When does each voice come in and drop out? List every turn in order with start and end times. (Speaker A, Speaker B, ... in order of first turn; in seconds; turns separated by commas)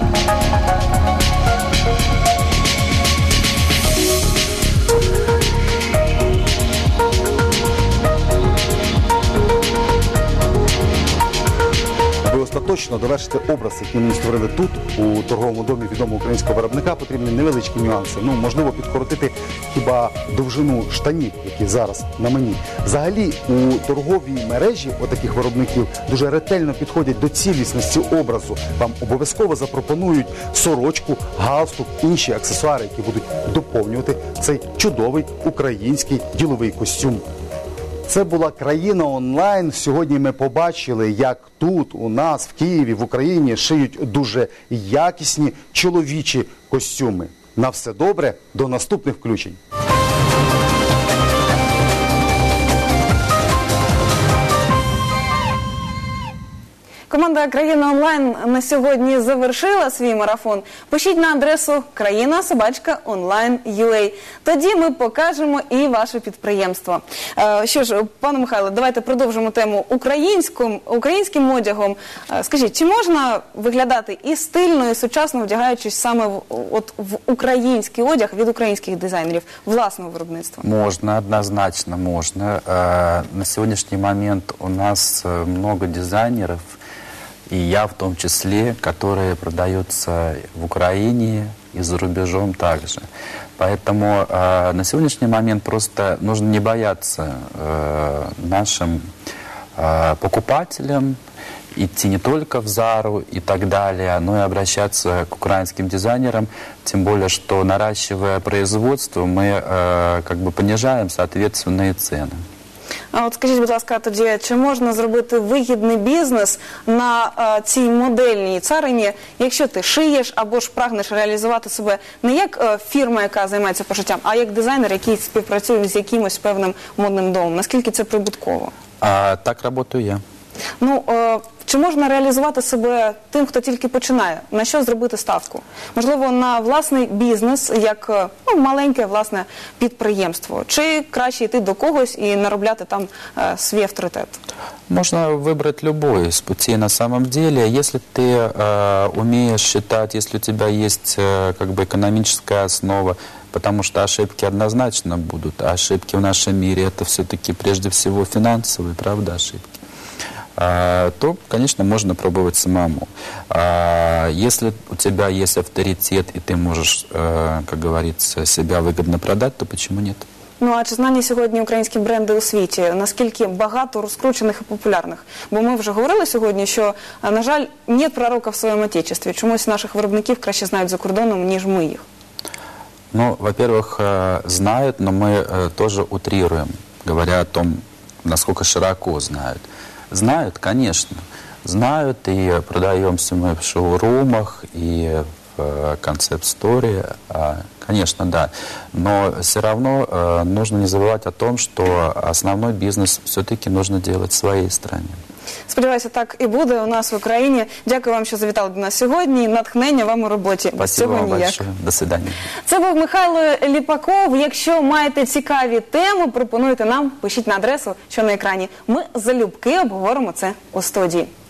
Speaker A: 12.2-37.2, Speaker A: 38.1-49.6, Speaker B: 57.1-80.7, Speaker C: 80.6-86.8, Speaker C: 87.5-93.0, Speaker C: 93.6-99.1, Speaker C: 99.8-101.2, Speaker C: 101.7-112.4, Speaker B: 113.1-128.7, Speaker C: 129.0-130.2, Speaker B: 130.8-144.4, Speaker C: 144.9-159.7, Speaker C: 160.6-170.2, Speaker B: 170.6-182.0, Speaker C: 183.1-205.2, Speaker B: 205.7-211.6, Speaker C: 210.8-212.4, Speaker B: 212.7-221.3